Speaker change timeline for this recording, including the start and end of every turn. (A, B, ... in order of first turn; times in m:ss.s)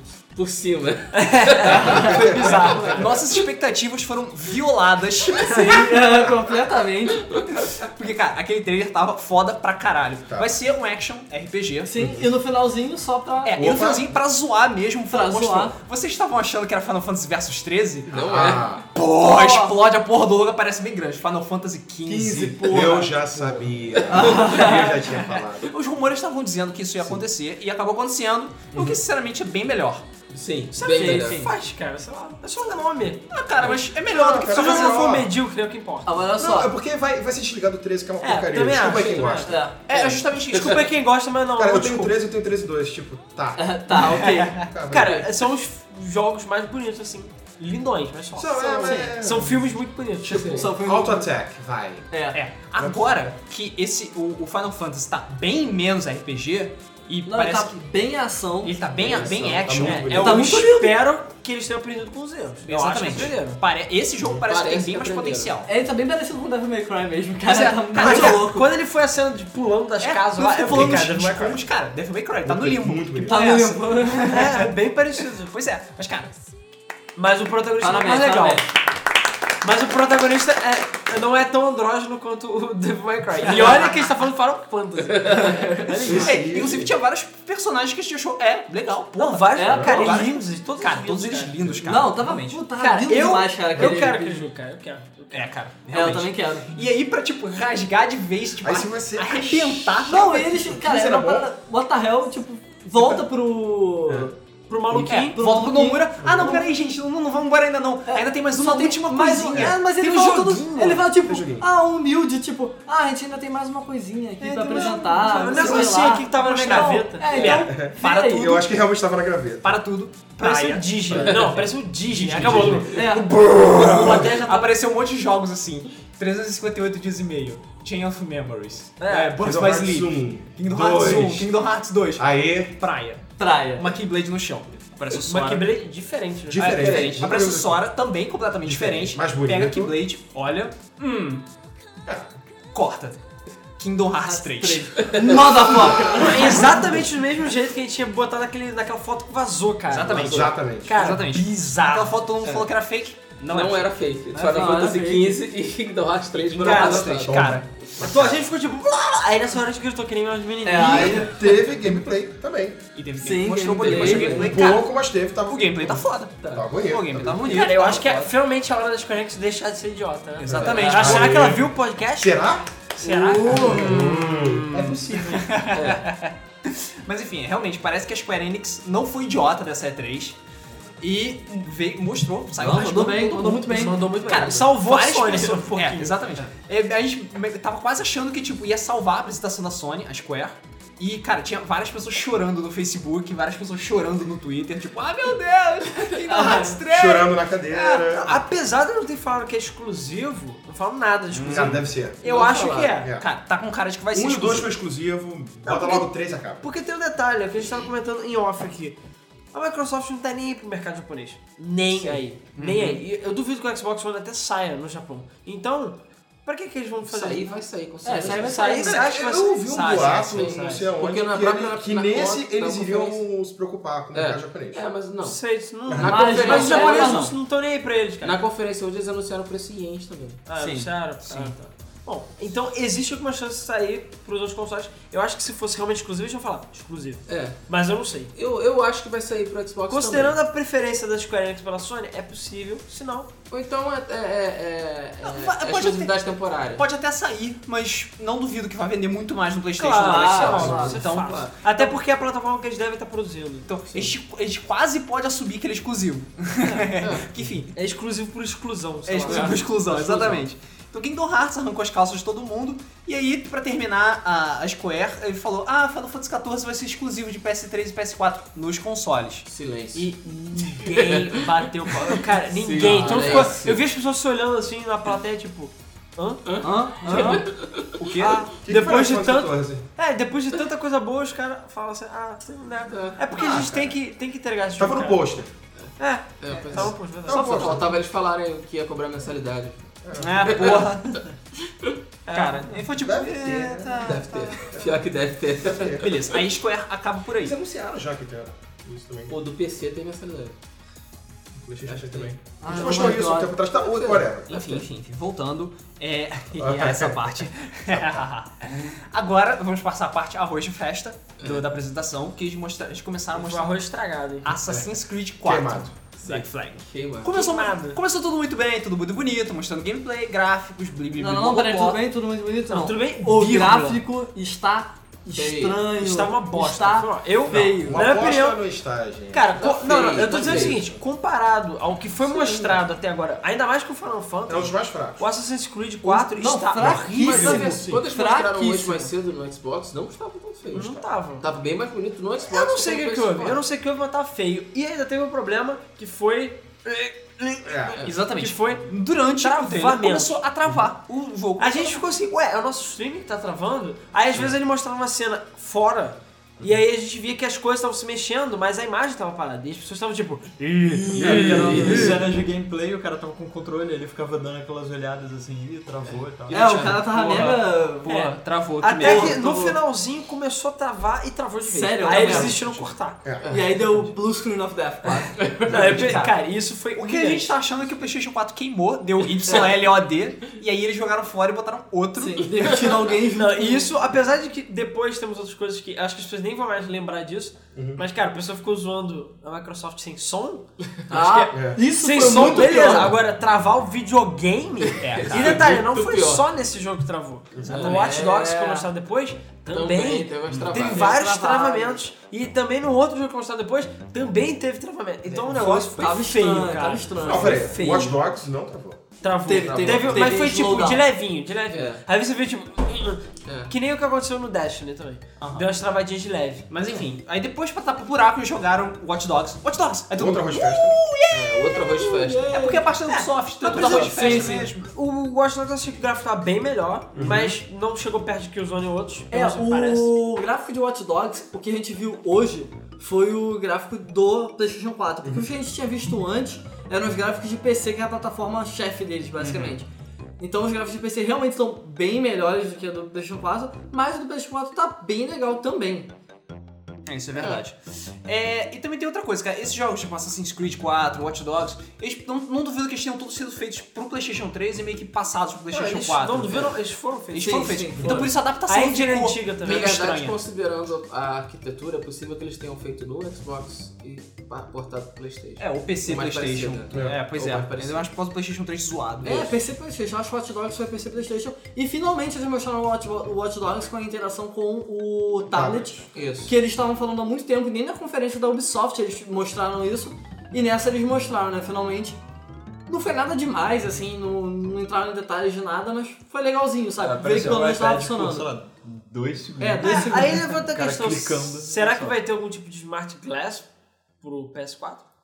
0:00.3-0:03.0 A
0:01.1-0:03.0 B
0:01.7-0:05.8 C
0:01.8-0:03.2 D
0:01.9-0:02.2 E
0:05.5-0:07.3 E
0:05.5-0:06.0 B
0:07.5-0:12.0 C
0:11.9-0:13.7 E
0:12.0-0:12.3 D
0:13.4-0:23.0 C
0:13.6-0:14.1 D
0:15.1-0:15.8 E
0:18.1-0:18.7 A
0:18.1-0:18.8 D
0:19.2-0:19.8 E
0:22.1-0:25.7 D
0:22.2-0:25.0 E
0:24.3-0:25.0 C
0:25.6-0:30.1 C
0:28.7-0:29.0 D
0:30.3-0:31.5 A
0:30.7-0:36.2 B
0:31.2-0:31.5 C
0:33.3-0:35.2 C
0:33.6-0:35.3 D
0:36.1-0:36.8 E
0:36.4-0:39.6 D
0:38.2-0:39.6 B
0:38.9-0:40.2 A
0:39.4-0:39.8 E
0:39.9-0:40.9 C
0:40.5-0:42.2 B
0:41.6-0:45.3 D
0:43.6-0:44.7 E
0:44.1-0:44.7 C
0:44.9-0:50.5 B
0:48.4-0:49.6 D
0:48.8-0:49.2 E
0:50.2-0:50.7 A
0:50.2-0:52.1 D
0:50.4-0:51.3 E
0:52.1-0:52.4 E
0:52.3-0:57.8 C
0:52.8-0:53.0 D
0:57.3-0:59.4 E
0:58.6-1:00.7 C
0:58.9-1:00.5 D
0:59.8-1:03.6 B
1:00.1-1:01.0 E
1:02.7-1:05.7 C
1:04.5-1:05.6 A
1:05.6-1:08.7 E
1:07.5-1:08.5 C
1:08.0-1:11.6 B
1:10.0-1:14.7 C
1:12.4-1:13.4 D
1:13.2-1:14.5 E
1:14.2-1:15.5 B
1:15.4-1:16.3 C
1:17.2-1:18.7 B
1:17.8-1:18.7 E
1:19.6-1:26.4 B
1:23.5-1:23.9 C
1:26.0-1:26.9 D
1:26.2-1:32.6 C
1:29.2-1:31.6 B
1:29.5-1:30.3 E
1:29.6-1:29.9 D
1:31.8-1:34.5 E
1:32.8-1:35.5 B
1:33.8-1:34.1 D
1:35.3-1:40.7 C
1:35.9-1:36.7 E
1:38.6-1:41.5 D
1:40.1-1:44.3 E
1:44.7-1:45.4 B
1:44.9-1:46.7 E
1:45.0-1:50.8 C
1:46.2-1:46.5 D
1:48.1-1:58.6 E
1:49.6-1:51.1 B
1:51.2-1:51.7 D
1:54.4-1:57.6 B
1:54.7-1:55.7 D
1:55.6-1:58.7 C
1:57.4-1:59.8 D
1:59.6-2:13.2 C
2:00.4-2:04.7 B
2:01.1-2:01.6 D
2:02.3-2:02.8 D
2:02.9-2:03.4 E
2:09.0-2:09.4 B
2:09.4-2:11.6 D
2:12.2-2:12.8 D
2:13.4-2:14.0 E
2:13.8-2:15.7 C
2:15.1-2:17.0 B
2:16.5-2:17.9 D
2:16.6-2:21.4 C
2:16.7-2:17.2 A
2:18.6-2:20.0 D
2:22.1-2:22.3 D
2:22.7-2:23.2 C
2:23.8-2:25.1 C
2:24.2-2:27.0 E
2:26.1-2:32.2 B
2:29.9-2:34.8 C
2:30.1-2:31.1 D
2:32.4-2:32.7 A
2:33.4-2:38.0 A
2:34.4-2:35.4 E
2:36.4-2:37.7 C
2:36.6-2:37.0 B
2:37.0-2:38.4 D
2:38.0-2:41.3 B
2:40.6-2:41.4 E
2:40.7-2:42.8 D
2:40.9-2:41.2 A
2:42.9-2:44.9 C
2:43.2-2:44.6 E
2:43.7-2:44.5 A
2:44.3-2:47.8 D
2:45.5-2:48.3 C
2:47.4-2:54.6 B
2:50.4-2:51.4 C
2:50.4-2:52.7 D
2:53.0-2:53.6 C
2:53.0-2:54.2 A
2:53.5-2:55.4 D
2:54.7-3:00.4 C
2:55.7-2:56.0 A
3:01.0-3:17.3 C
3:02.6-3:04.0 E
3:03.2-3:04.6 A
3:03.6-3:06.3 B
3:16.3-3:16.8 E
3:16.3-3:16.7 B
3:16.9-3:18.4 D
3:17.7-3:23.1 B
3:21.3-3:21.9 C
3:21.5-3:22.2 D
3:22.2-3:22.9 A
3:22.9-3:23.3 D
3:23.0-3:24.7 C
3:24.1-3:26.6 D
3:25.6-3:26.1 B
3:26.6-3:29.0 B
3:29.5-3:39.6 B
3:32.6-3:33.0 C
3:37.1-3:38.8 A
3:38.0-3:39.0 E
3:38.9-3:44.9 D
3:39.6-3:40.8 C
3:40.1-3:43.2 A
3:44.1-3:47.3 A
3:45.2-3:48.4 B
3:45.9-3:46.2 D
3:46.0-3:47.3 E
3:48.2-3:51.6 A
3:50.5-3:58.3 B
3:57.3-3:57.6 A
3:58.3-4:00.4 A
3:59.9-4:03.3 B
4:03.5-4:06.8 A
4:05.2-4:06.2 C
4:06.8-4:12.0 C
4:09.8-4:13.7 B
4:10.0-4:11.0 E
4:10.6-4:11.0 D
4:13.7-4:17.7 C
4:17.0-4:17.4 A
4:17.7-4:20.3 B
4:19.1-4:29.5 C
4:19.3-4:20.5 A
4:29.4-4:33.8 A
4:30.0-4:37.5 B
4:32.8-4:33.4 C
4:36.5-4:37.9 A
4:36.6-4:37.4 E
4:37.1-4:37.4 C
4:37.9-4:38.5 C
4:38.2-4:45.2 B
4:38.6-4:39.8 D
4:42.8-4:43.2 A
4:43.3-4:44.0 D
4:44.8-4:45.5 D
4:46.0-4:47.9 B
4:46.4-4:51.2 A
4:46.8-4:48.0 D
4:50.0-4:50.8 D
4:50.2-4:51.2 C
4:52.3-4:52.8 B
4:52.3-4:54.6 C
4:53.0-4:54.2 D
4:54.0-4:56.1 A
4:55.6-4:56.2 D
4:56.0-4:57.6 C
4:57.4-4:59.4 D
4:59.3-5:00.6 A
5:01.6-5:04.6 D
5:01.8-5:03.2 A
5:02.5-5:03.6 E
5:03.7-5:04.9 A
5:04.5-5:13.8 C
5:06.6-5:08.2 D
5:13.3-5:14.6 B
5:14.4-5:22.0 C
5:14.7-5:16.0 D
5:16.2-5:17.3 A
5:17.3-5:18.0 B
5:21.2-5:28.1 E
5:22.7-5:24.0 B
5:25.3-5:25.8 A
5:25.9-5:28.6 B
5:27.5-5:31.0 D
5:29.3-5:37.3 B
5:29.6-5:30.8 A
5:34.5-5:35.2 D
5:36.0-5:37.8 C
5:36.3-5:39.1 E
5:37.0-5:43.6 A
5:40.7-5:41.5 B
5:42.5-5:47.7 B
5:47.6-5:48.1 D
5:48.0-5:52.0 C
5:48.3-5:50.4 B
5:51.6-6:02.1 B
6:01.1-6:06.9 F
6:01.3-6:02.2 A
6:01.7-6:02.0 D
6:06.5-6:08.2 E
6:06.5-6:09.4 C
6:07.3-6:13.2 B
6:09.0-6:09.8 E
6:11.6-6:12.6 E
6:12.2-6:13.5 D
6:13.4-6:13.8 A
6:13.5-6:16.2 E
6:15.2-6:16.1 A
6:15.7-6:17.5 B
6:15.7-6:16.3 C
6:17.0-6:22.6 C
6:22.2-6:23.9 E
6:22.9-6:48.2 B
6:27.8-6:28.0 D
6:31.1-6:33.2 E
6:31.5-6:31.8 D
6:34.9-6:36.4 A
6:35.0-6:35.7 C
6:37.6-6:37.9 D
6:37.7-6:38.2 A
6:37.8-6:38.9 E
6:39.7-6:41.2 A
6:40.9-6:42.0 E
6:45.3-6:48.0 E
6:47.2-6:49.0 D
6:49.2-6:56.6 B
6:49.4-6:51.0 E
6:49.7-6:50.2 D
6:51.7-6:52.0 A
6:53.4-6:53.7 A
6:55.4-6:55.7 C
6:56.7-7:01.8 C
7:00.2-7:01.0 D
7:01.3-7:02.5 A
7:01.9-7:03.0 E
7:02.5-7:04.9 C
7:03.7-7:04.6 A
7:03.7-7:04.7 E
7:04.0-7:10.2 B
7:07.2-7:07.5 D
7:07.2-7:07.5 C
7:09.3-7:19.9 E
7:15.2-7:15.5 D
7:19.4-7:19.8 C
7:20.4-7:26.1 E
7:27.1-7:36.7 C
7:35.7-7:39.9 B
7:37.3-7:40.4 C
7:37.4-7:38.3 E
7:39.6-7:48.1 A
7:45.6-7:49.6 C
7:46.9-7:47.3 D
7:49.2-8:02.2 E
7:55.5-7:56.1 D
7:56.1-7:56.5 A
8:02.9-8:08.5 E
8:07.0-8:12.2 F
8:09.6-8:10.6 E
8:09.8-8:13.7 B
8:14.2-8:15.0 B